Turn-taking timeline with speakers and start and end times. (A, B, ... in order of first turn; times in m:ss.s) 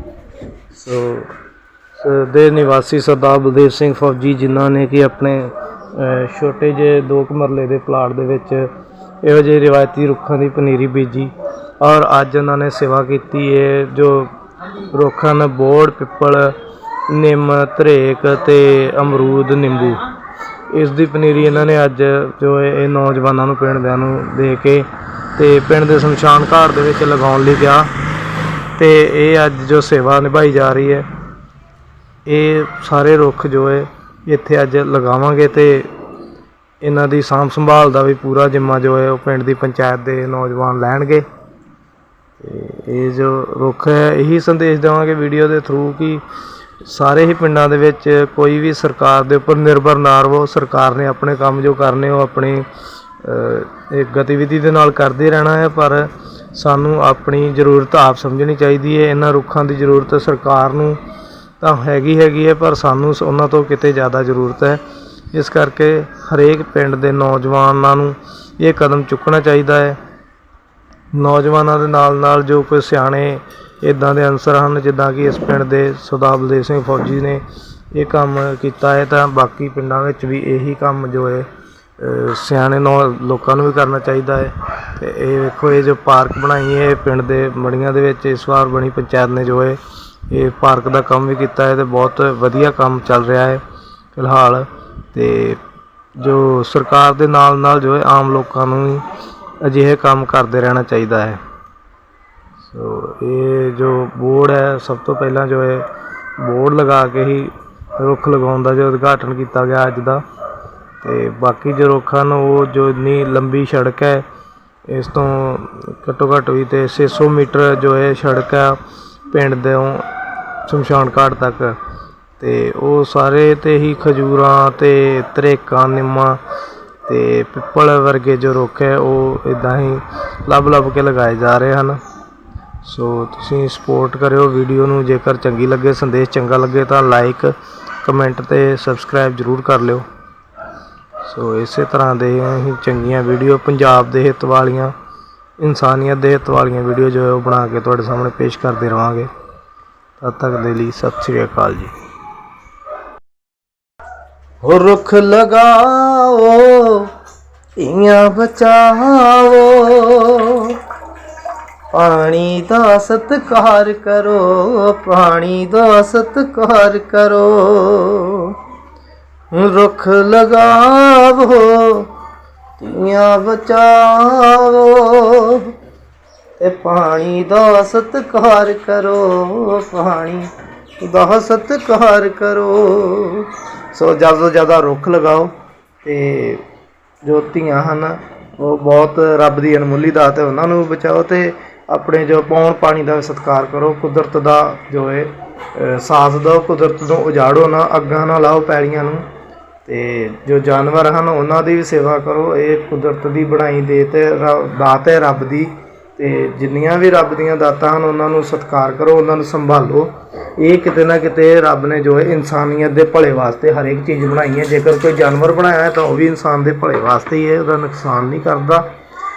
0:00.7-0:01.3 A
0:02.0-0:08.7 A
0:09.2-0:14.3 A
0:14.9-0:16.5 A
0:17.1-0:20.1 A
0:20.7-0:27.9 A
0:28.8-0:31.0 A
0:32.2-0:35.9 A
0:36.8-0:41.2 A
0:42.4-0:46.2 A
0:46.8-0:52.6 A
0:53.2-1:01.0 A
1:01.6-1:04.8 A
1:05.3-1:10.0 A
1:11.1-1:21.5 A
1:22.0-1:33.6 A
1:34.1-1:35.6 A
1:36.2-1:39.0 A
1:39.6-1:41.4 A
1:42.6-1:45.9 A
1:46.4-1:50.2 A
1:51.0-1:54.2 A
1:54.9-1:58.8 A
1:59.3-2:00.0 A
2:00.6-2:01.8 A
2:02.4-2:06.4 A
2:07.0-2:12.0 A
2:12.8-2:20.0 A
2:21.2-2:24.9 A
2:25.6-2:29.3 A
2:30.2-2:31.9 A
2:34.6-2:37.1 A
2:37.8-2:40.8 A
2:41.9-2:48.6 A
2:49.5-2:52.1 A
2:52.8-2:55.7 A
2:56.6-3:05.5 A
3:06.0-3:06.6 A
3:07.2-3:19.2 A
3:19.8-3:38.8 A